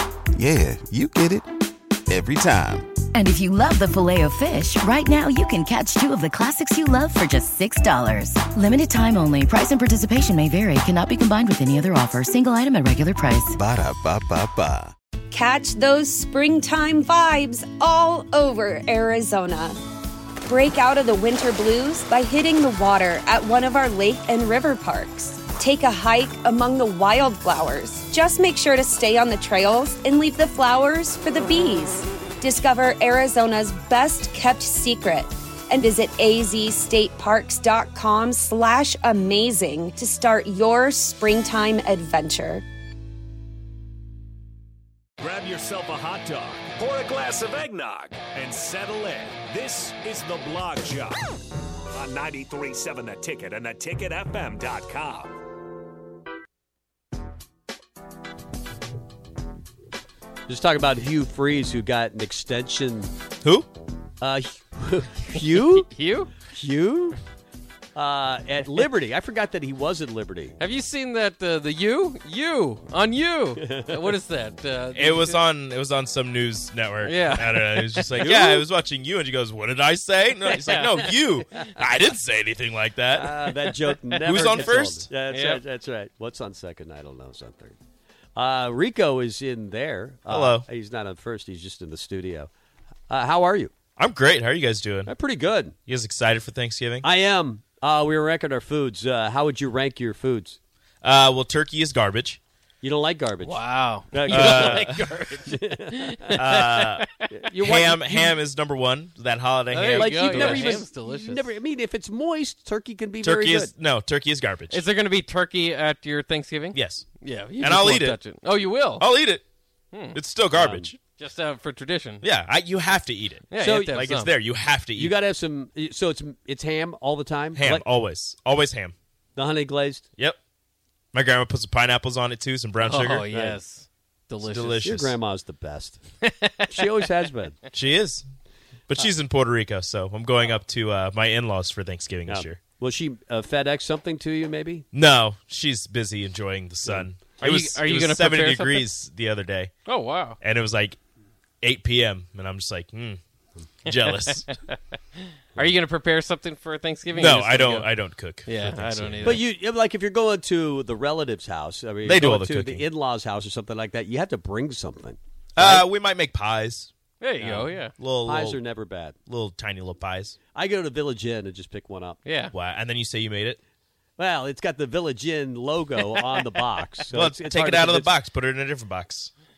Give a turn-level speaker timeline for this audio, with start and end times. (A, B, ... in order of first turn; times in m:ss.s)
0:00.3-0:01.4 A
0:02.1-0:02.9 A
0:03.1-0:13.6 B
0:13.5-0:14.9 A
0:15.3-0:19.8 C
0:20.4-0:42.6 C
0:45.2-0:51.2 D
0:52.0-0:55.3 D
1:00.5-1:03.1 E
1:03.4-1:03.7 F
1:04.2-1:05.9 E
1:05.3-1:06.3 G
1:06.5-1:07.2 E
1:07.9-1:10.6 E
1:10.6-1:15.4 G
1:13.6-1:14.0 E
1:14.9-1:25.1 F
1:17.0-1:18.1 G
1:18.2-1:18.7 E
1:20.5-1:21.1 G
1:23.1-1:27.8 E
1:25.3-1:25.6 G
1:28.3-1:32.5 E
1:30.3-1:30.7 F
1:33.1-1:33.7 E
1:34.0-1:35.1 F
1:35.1-1:35.8 E
1:35.9-1:37.1 F
1:37.0-1:40.6 E
1:41.0-1:42.4 F
1:42.8-1:43.6 E
1:43.4-1:47.3 G
1:44.1-1:46.4 E
1:44.3-1:44.9 F
1:46.4-1:50.8 F
1:47.3-1:48.4 E
1:49.7-1:51.5 G
1:49.9-1:53.7 E
1:53.2-1:54.8 F
1:54.7-1:59.1 G
1:56.7-1:58.2 F
1:59.0-1:59.4 F
1:59.9-2:00.2 G
2:00.1-2:01.0 F
2:00.6-2:00.9 E
2:01.2-2:02.2 G
2:02.2-2:05.1 F
2:03.5-2:04.3 G
2:03.6-2:04.0 E
2:04.9-2:07.8 E
2:07.5-2:08.9 F
2:09.4-2:10.1 E
2:11.1-2:13.3 F
2:12.8-2:15.0 G
2:13.3-2:13.6 E
2:14.4-2:15.1 F
2:14.8-2:16.0 E
2:16.2-2:16.6 G
2:16.7-2:17.6 E
2:17.7-2:18.2 F
2:18.9-2:22.6 F
2:22.3-2:24.8 E
2:24.9-2:29.7 F
2:27.4-2:28.9 G
2:29.8-2:30.4 G
2:30.4-2:31.0 F
2:31.6-2:33.2 F
2:33.8-2:34.5 F
2:35.5-2:37.9 G
2:37.1-2:39.4 F
2:38.4-2:39.4 G
2:39.2-2:45.9 E
2:42.0-2:42.8 F
2:45.6-2:46.9 F
2:47.2-2:47.9 G
2:47.4-2:49.2 E
2:48.0-2:48.6 F
2:49.3-2:50.4 F
2:50.5-2:52.2 E
2:52.2-2:52.5 G
2:52.5-2:53.6 F
2:54.2-2:58.1 E
2:57.1-2:59.3 F